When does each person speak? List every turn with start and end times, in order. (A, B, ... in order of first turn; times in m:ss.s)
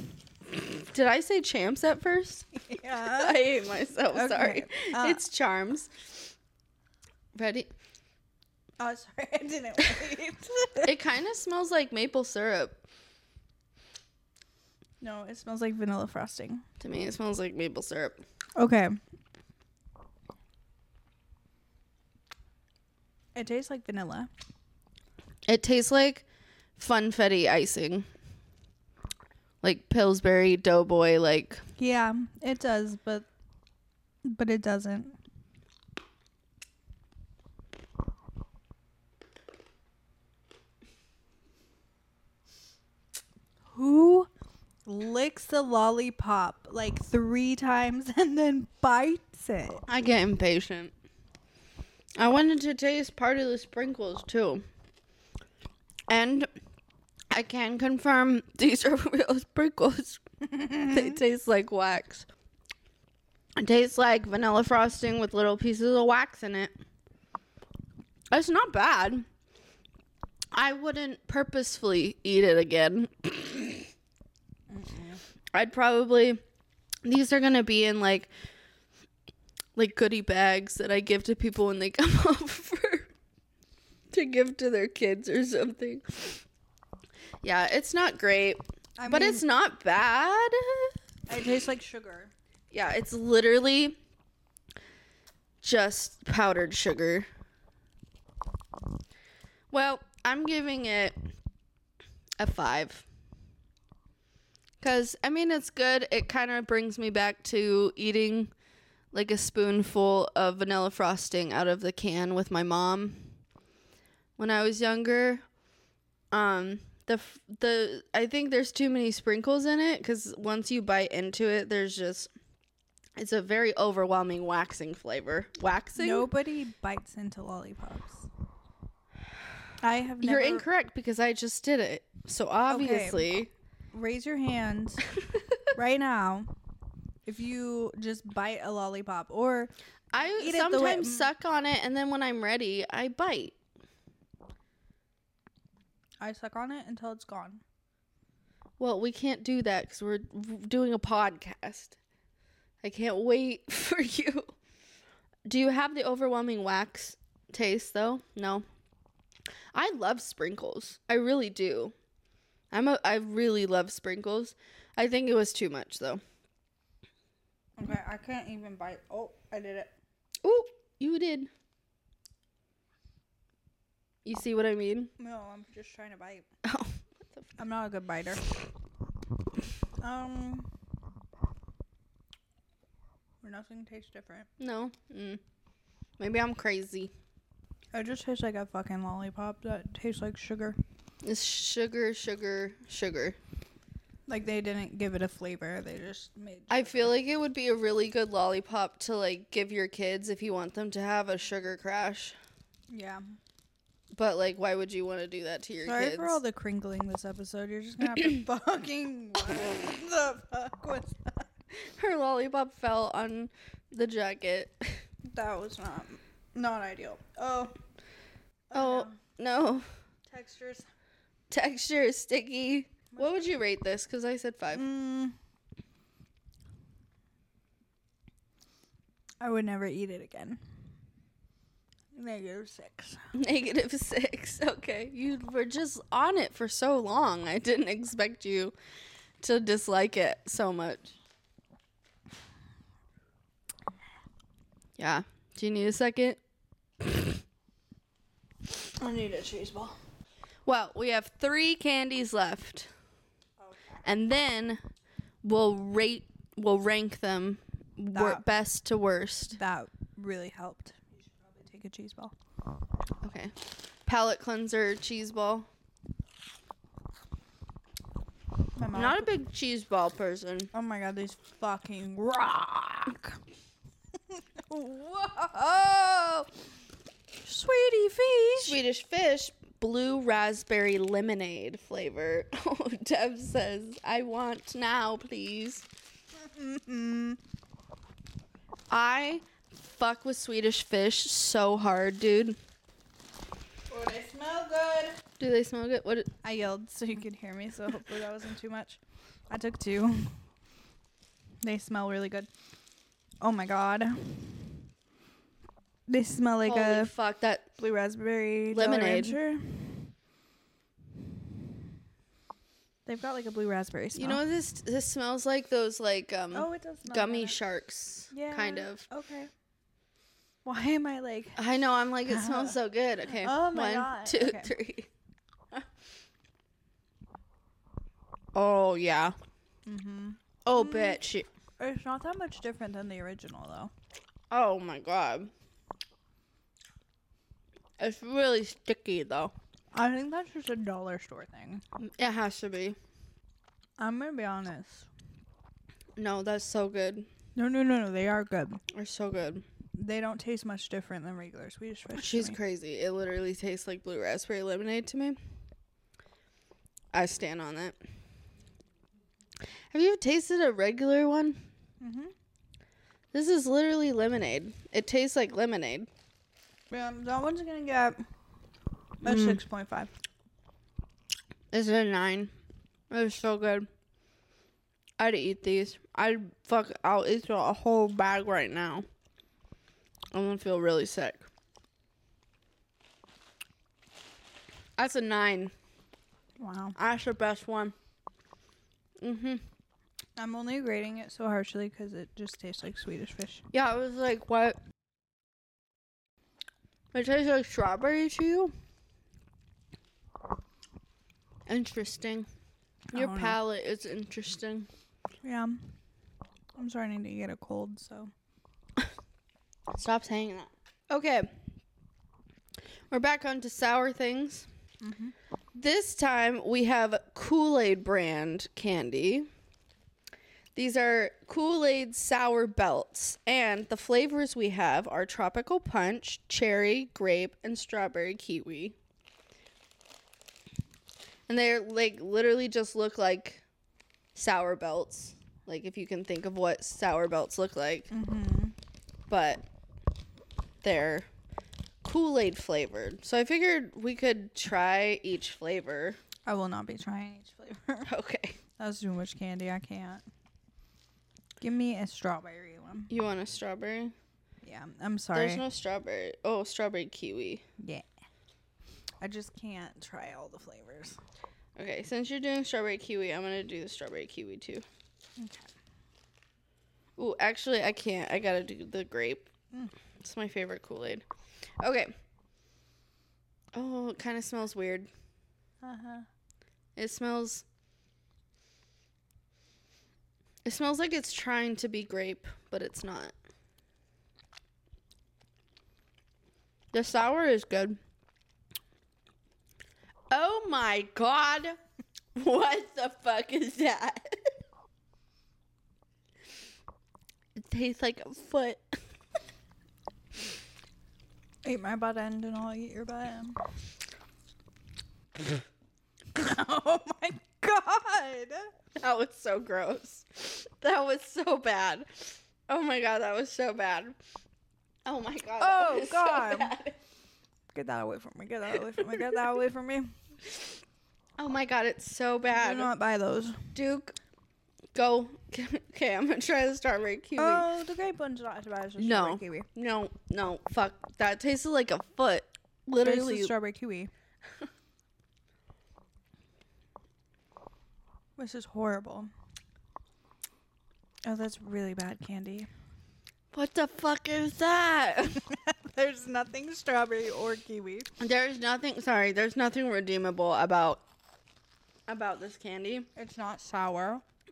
0:00.5-0:02.5 A
0:02.5-0:03.4 B
0:03.1-0:06.3 A
0:04.1-0:05.2 B
0:07.3-0:07.7 A
0:08.8-0:10.9 B
0:10.8-0:12.8 A
0:15.0-0:16.6 B
0:16.8-0:18.2 A
0:18.6-0:18.9 B
0:23.3-0:24.3 B
0:25.5-0:26.2 A
0:26.8-0:28.0 A
0:29.6-0:31.6 A
0:31.8-0:33.3 B
0:34.2-0:35.2 B
0:43.7-0:44.3 B
0:44.8-0:49.8 B
0:49.9-0:50.9 A
0:52.2-0:54.6 A
0:56.1-0:56.5 A
0:57.3-1:00.2 A
1:00.4-1:01.2 B
1:00.8-1:02.3 A
1:03.6-1:06.7 A
1:08.3-1:09.2 A
1:10.5-1:13.9 A
1:14.7-1:15.2 B
1:15.5-1:16.4 A
1:17.0-1:18.3 A
1:19.8-1:23.1 A
1:24.1-1:26.4 A
1:27.4-1:30.9 A
1:29.0-1:29.4 B
1:31.3-1:32.3 B
1:32.7-1:34.0 A
1:35.6-1:37.3 A
1:39.7-1:41.2 A
1:42.4-1:43.0 A
1:44.8-1:48.5 A
1:49.1-1:53.3 A
1:54.4-1:55.4 A
1:56.3-2:02.3 A
2:03.2-2:06.3 A
2:06.0-2:08.3 B
2:09.8-2:10.6 B
2:10.2-2:13.5 A
2:12.7-2:13.3 B
2:13.9-2:15.0 B
2:15.7-2:16.5 B
2:17.2-2:19.7 B
2:20.1-2:23.5 A
2:20.4-2:21.3 B
2:26.2-2:27.6 B
2:28.8-2:32.0 A
2:32.8-2:34.5 A
2:35.4-2:38.6 A
2:39.7-2:41.9 A
2:42.7-2:46.2 A
2:47.8-2:49.9 B
2:50.4-2:51.5 A
2:54.2-2:55.1 A
2:55.2-2:56.5 B
2:56.6-2:57.6 A
2:57.6-2:58.4 B
3:00.0-3:00.7 B
3:03.4-3:04.5 B
3:04.6-3:05.4 A
3:06.2-3:07.1 A
3:07.9-3:10.8 B
3:11.2-3:13.4 A
3:14.3-3:17.1 B
3:16.7-3:22.4 A
3:22.9-3:23.2 B
3:24.1-3:26.4 A
3:25.8-3:31.5 B
3:31.8-3:35.0 A
3:35.3-3:37.8 B
3:38.7-3:39.2 B
3:38.7-3:39.8 A
3:40.2-3:40.8 B
3:41.5-3:44.8 A
3:43.1-3:43.4 B
3:44.7-3:45.4 B
3:49.4-3:50.6 B
3:52.1-3:53.3 B
3:53.3-3:58.7 A
3:59.4-4:01.1 A
4:05.0-4:06.4 A
4:09.0-4:10.0 B
4:10.6-4:12.9 A
4:13.6-4:14.0 B
4:14.0-4:14.8 A
4:15.4-4:19.6 A
4:18.1-4:18.4 B
4:19.5-4:22.3 B
4:23.2-4:23.5 A
4:24.0-4:25.7 A
4:28.8-4:29.3 B
4:28.9-4:30.7 A
4:30.7-4:33.4 B
4:34.3-4:36.0 B
4:36.0-4:36.5 A
4:37.4-4:38.8 B
4:38.6-4:45.8 A
4:46.3-4:47.4 B
4:48.9-4:52.6 A
4:53.9-4:55.2 B
4:55.4-4:56.3 A
4:56.4-5:00.4 B
5:01.6-5:02.5 B
5:03.4-5:04.4 B
5:06.1-5:07.1 B
5:06.6-5:07.7 A
5:07.8-5:10.1 B
5:08.7-5:09.4 A
5:13.0-5:14.4 B
5:14.1-5:19.0 A
5:16.5-5:17.6 B
5:18.3-5:19.5 B
5:20.6-5:21.6 B
5:21.6-5:25.1 A
5:22.2-5:24.7 B
5:28.5-5:29.3 A
5:29.8-5:31.2 B
5:30.6-5:31.5 A
5:31.8-5:33.9 B
5:34.5-5:35.5 A
5:38.0-5:39.5 A
5:39.9-5:41.8 B
5:42.0-5:43.0 A
5:44.0-5:45.1 B
5:46.2-5:47.3 A
5:47.6-5:48.8 B
5:48.9-5:49.6 A
5:50.0-5:52.6 B
5:52.1-5:55.4 A
5:57.1-5:58.0 A
5:59.9-6:01.6 A
6:02.0-6:02.3 B
6:03.3-6:06.1 A
6:06.9-6:08.2 B
6:09.2-6:09.6 A
6:09.2-6:10.1 B
6:11.7-6:12.5 A
6:13.1-6:13.9 A
6:15.2-6:19.0 A
6:20.3-6:21.4 A
6:25.0-6:25.7 A
6:26.6-6:27.0 B
6:27.0-6:27.9 A
6:29.2-6:29.6 A
6:30.4-6:33.6 B
6:33.7-6:34.8 A
6:37.1-6:38.7 A
6:41.7-6:42.5 A
6:43.1-6:44.9 A
6:43.1-6:43.6 B
6:45.4-6:46.0 B
6:46.8-6:48.3 B
6:49.9-6:51.5 A
6:53.1-6:54.7 A
6:55.0-6:55.3 B
6:55.7-6:59.5 A
7:00.7-7:08.9 A
7:11.5-7:13.6 A
7:14.3-7:18.1 A
7:18.1-7:18.7 B
7:19.3-7:19.6 A
7:20.8-7:21.3 A
7:22.0-7:26.2 A
7:26.4-7:28.1 B
7:28.1-7:28.6 A
7:28.8-7:30.2 B
7:31.6-7:33.1 B
7:33.1-7:34.1 A
7:34.6-7:35.6 B
7:35.3-7:37.6 A
7:37.8-7:38.0 B
7:39.2-7:41.2 B
7:41.8-7:44.8 A
7:45.4-7:45.7 B
7:47.2-7:49.5 A
7:50.2-7:51.2 A
7:51.8-7:52.1 A
7:53.7-7:55.1 A
7:55.8-7:56.2 B
7:57.0-7:57.6 A
8:00.6-8:03.3 A
8:06.9-8:08.0 A
8:10.3-8:11.8 A
8:12.3-8:14.2 A
8:17.6-8:18.8 A
8:21.6-8:23.6 B
8:26.3-8:28.7 B
8:29.0-8:34.2 A
8:35.0-8:37.0 A
8:35.6-8:36.8 B
8:37.7-8:40.1 B
8:39.0-8:39.4 A
8:41.4-8:42.9 A
8:42.5-8:43.6 B
8:43.7-8:44.2 A
8:44.9-8:47.6 A
8:47.4-8:49.7 B
8:49.0-8:53.5 A
8:53.0-8:54.1 B
8:58.4-8:59.3 B
9:01.2-9:02.7 B
9:03.5-9:05.4 A
9:05.4-9:08.1 B
9:08.2-9:11.0 A
9:12.1-9:13.1 A
9:13.2-9:14.2 B